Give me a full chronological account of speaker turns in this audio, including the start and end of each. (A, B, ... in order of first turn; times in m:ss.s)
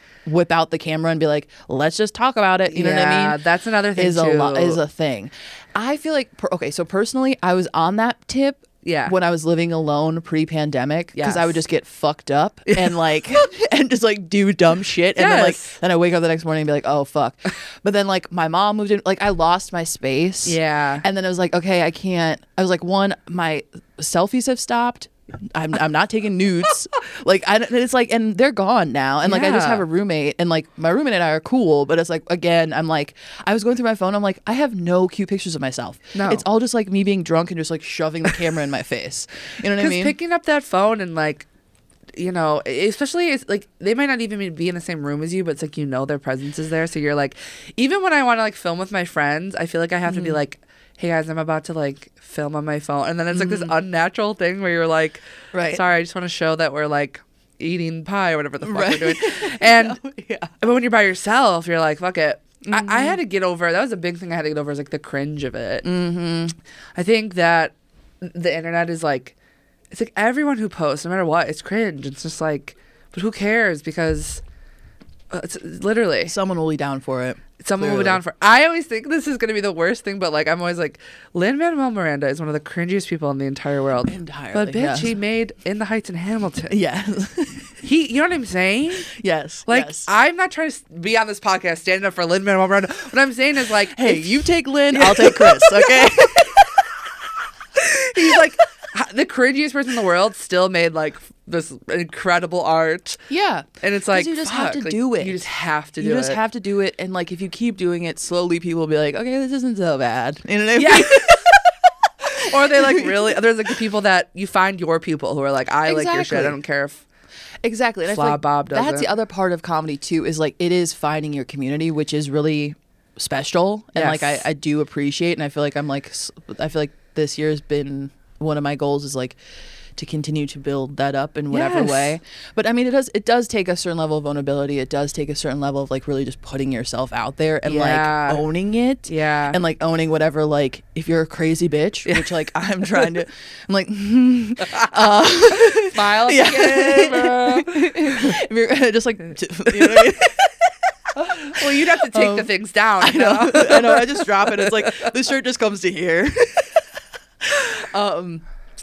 0:00.3-0:03.4 A
0:02.7-0:04.8 B
0:04.0-0:40.2 A
0:08.8-0:09.1 B
0:11.2-0:11.6 B
0:15.2-0:15.8 B
0:20.4-0:21.1 B
0:29.2-0:29.9 B
0:36.1-0:36.4 B
0:39.7-0:41.5 B
0:42.2-1:00.0 B
0:50.1-0:50.4 A
0:53.3-0:53.7 A
0:55.5-0:55.8 A
0:58.6-1:00.6 A
1:00.6-1:05.9 B
1:02.6-1:03.2 A
1:05.8-1:06.6 A
1:07.0-1:09.4 B
1:09.9-1:14.4 B
1:15.3-1:16.3 B
1:16.3-1:18.2 A
1:17.6-1:26.8 B
1:24.0-1:25.1 A
1:26.7-1:27.8 A
1:27.8-1:29.1 B
1:29.1-1:30.1 A
1:29.7-1:34.4 B
1:33.9-1:36.9 A
1:34.9-1:36.9 B
1:37.8-1:43.2 B
1:43.3-1:51.7 A
1:43.8-1:46.4 B
1:50.8-1:51.5 B
1:52.3-1:57.0 B
1:52.3-1:53.4 A
1:55.9-1:56.6 A
1:57.6-2:09.4 A
1:58.1-1:59.1 B
2:04.0-2:04.4 B
2:10.0-2:30.6 A
2:11.5-2:12.2 B
2:17.6-2:18.4 B
2:19.1-2:19.6 B
2:22.1-2:22.3 B
2:24.6-2:28.3 B
2:29.7-2:30.1 B
2:31.2-2:32.5 A
2:31.2-2:35.1 B
2:33.0-2:36.9 A
2:37.4-2:38.4 A